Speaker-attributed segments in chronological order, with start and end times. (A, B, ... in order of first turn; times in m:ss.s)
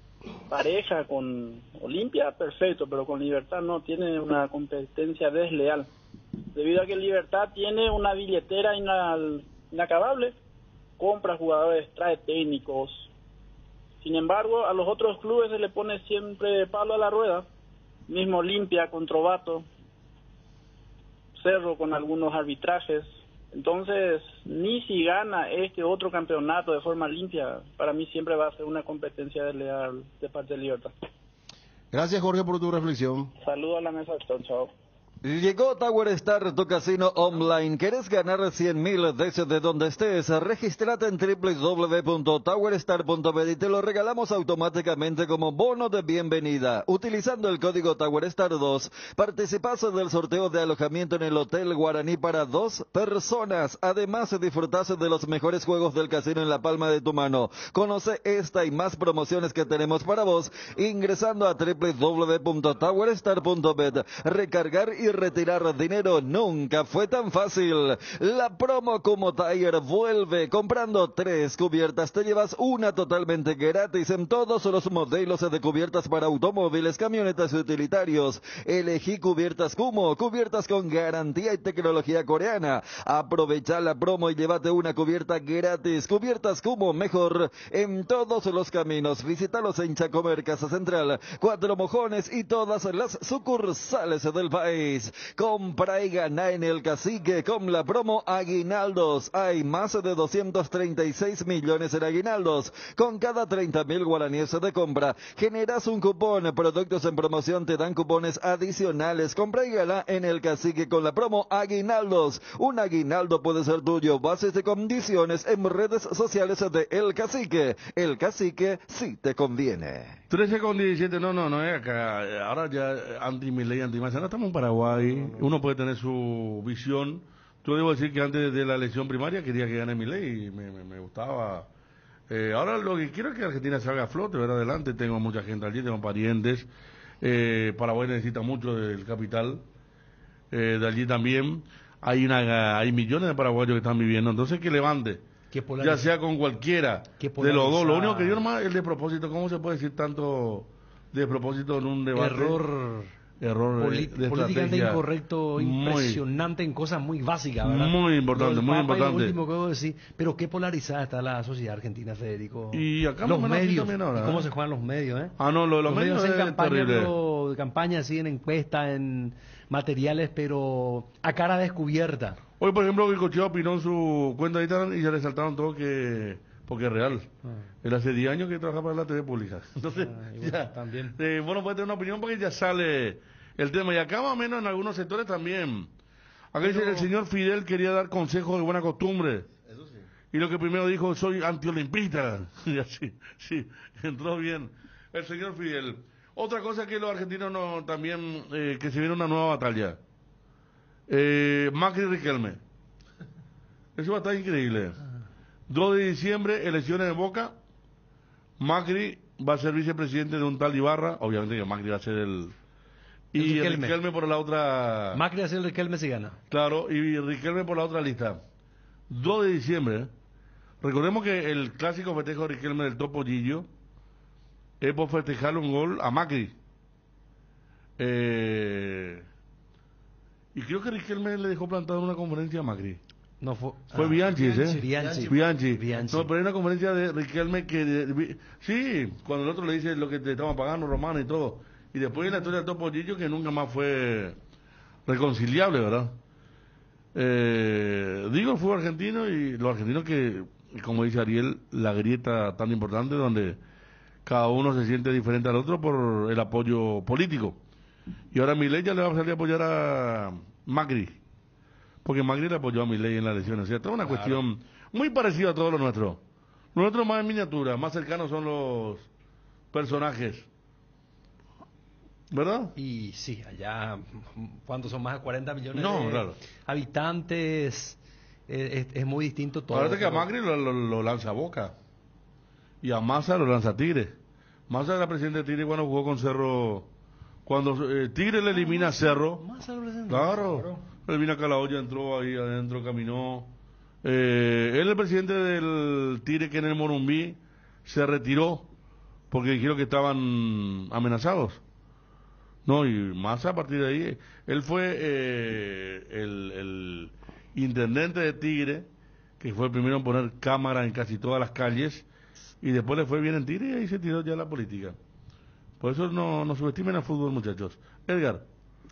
0:00.5-0:05.9 A
0:06.5-0:10.3 A
0:11.0-0:13.1 A
0:14.0-0:17.4 A
0:18.1-0:19.7 A
0:21.4-0:30.9 A
0:31.9-0:33.3 B
0:33.4-0:34.7 A
0:35.2-2:00.2 C
2:00.3-2:11.7 D
2:04.9-2:05.5 B
2:12.3-2:16.7 D
2:17.2-2:19.6 D
2:20.5-2:25.2 D
2:25.5-2:26.1 E
2:25.8-2:32.6 D
2:27.2-2:28.4 E
2:32.1-2:33.1 E
2:33.4-2:35.0 D
2:33.8-2:52.4 E
2:35.6-2:36.2 D
2:37.6-2:39.4 D
2:42.7-2:44.4 D
2:45.4-2:47.1 D
2:52.6-2:57.3 D
2:57.8-3:05.9 D
3:00.0-3:01.2 E
3:06.5-3:09.5 D
3:06.6-3:07.1 E
3:09.6-3:10.0 B
3:10.3-3:20.0 D
3:21.1-3:22.6 D
3:24.0-3:25.0 D
3:25.7-3:27.5 D
3:28.6-3:32.5 D
3:33.3-3:35.2 D
3:33.4-3:34.0 E
3:35.1-3:36.4 E
3:36.5-3:38.4 D
3:39.1-3:40.1 D
3:40.8-3:43.7 D
3:44.8-3:46.5 D
3:48.0-3:49.2 D
3:50.5-3:53.0 D
3:53.4-3:56.3 E
3:53.9-4:04.4 D
3:55.0-3:55.3 B
4:05.1-4:06.1 D
4:07.1-4:13.6 D
4:14.2-4:17.6 D
4:18.3-4:21.2 D
4:22.0-4:26.2 D
4:24.0-4:24.4 E
4:26.7-4:29.1 D
4:29.7-4:30.5 D
4:32.3-4:32.7 D
4:32.8-4:40.3 E
4:35.7-4:36.4 D
4:39.7-4:41.7 D
4:42.8-4:44.1 D
4:44.7-4:46.9 D
4:47.5-4:49.4 D
4:48.5-4:50.8 E
4:50.1-4:53.5 D
4:54.0-4:58.7 D
4:59.3-5:01.6 D
5:02.6-5:08.8 D
5:09.4-5:12.0 D
5:12.6-5:15.0 D
5:15.8-5:18.4 D